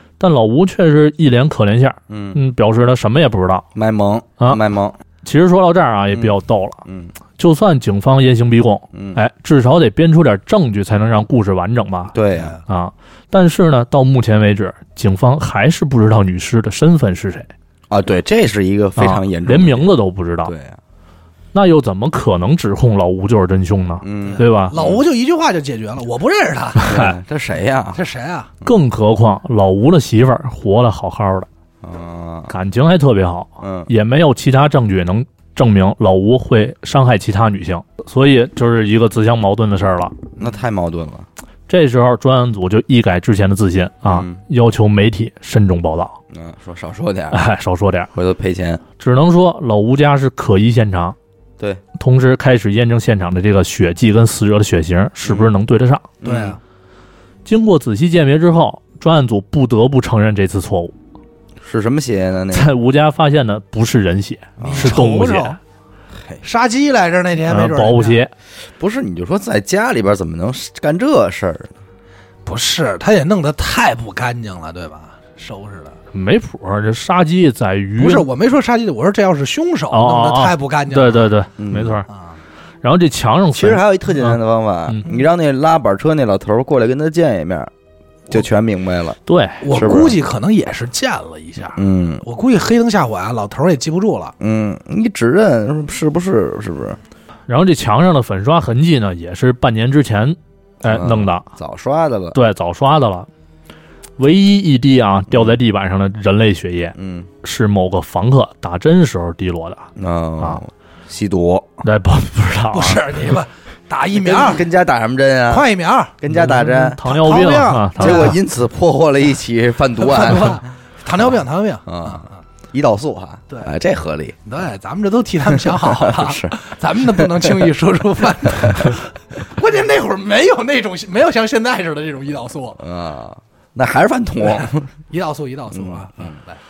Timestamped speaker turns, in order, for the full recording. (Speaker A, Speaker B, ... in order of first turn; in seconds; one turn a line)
Speaker A: 0.2-3.7
Speaker B: 2.1-2.4
Speaker B: 3.8-5.0
Speaker A: 5.2-6.8
Speaker B: 6.8-7.1
Speaker A: 7.4-12.2
Speaker B: 8.9-9.2
Speaker B: 12.1-12.6
Speaker A: 12.7-17.5
Speaker B: 17.9-19.9
Speaker A: 19.0-20.5
Speaker B: 20.4-20.8
Speaker A: 21.5-24.8
Speaker B: 24.0-25.0
Speaker C: 24.2-27.0
Speaker A: 26.8-27.2
Speaker B: 26.9-28.0
Speaker C: 27.9-28.5
Speaker A: 28.6-31.5
Speaker B: 31.8-32.5
Speaker A: 32.5-40.2
Speaker B: 33.6-33.9
Speaker B: 40.4-41.3
Speaker A: 41.7-46.2
Speaker B: 44.0-44.4
Speaker B: 46.3-47.4
Speaker A: 47.3-48.1
Speaker B: 48.1-48.8
Speaker A: 49.0-51.2
Speaker A: 52.0-56.1
Speaker B: 55.2-55.5
Speaker B: 56.2-56.6
Speaker C: 56.2-56.6
Speaker A: 57.5-60.9
Speaker B: 61.6-62.7
Speaker A: 62.5-65.6
Speaker B: 64.6-65.0
Speaker C: 64.6-65.6
Speaker C: 66.4-68.2
Speaker A: 67.5-68.3
Speaker B: 68.8-71.7
Speaker C: 72.5-76.0
Speaker A: 76.1-78.3
Speaker C: 78.0-81.3
Speaker A: 79.9-82.1
Speaker B: 81.6-82.0
Speaker C: 82.1-82.4
Speaker A: 82.8-85.0
Speaker B: 83.5-87.7
Speaker B: 88.3-89.2
Speaker A: 89.3-89.7
Speaker C: 89.6-94.3
Speaker B: 89.7-90.2
Speaker B: 91.8-92.2
Speaker B: 94.4-97.0
Speaker A: 97.5-101.5
Speaker B: 100.8-102.4
Speaker A: 102.3-103.3
Speaker A: 104.2-109.9
Speaker B: 105.3-105.6
Speaker B: 107.0-107.3
Speaker B: 110.0-111.7
Speaker A: 111.8-113.2
Speaker C: 112.7-114.7
Speaker B: 114.1-115.7
Speaker C: 115.5-118.4
Speaker B: 116.2-117.0
Speaker A: 116.3-118.4
Speaker B: 118.0-120.6
Speaker C: 120.0-122.3
Speaker B: 121.9-124.4
Speaker C: 124.5-132.8
Speaker B: 125.8-126.6
Speaker B: 127.1-127.5
Speaker B: 128.6-128.9
Speaker B: 132.8-134.9
Speaker C: 134.6-136.6
Speaker B: 135.7-136.4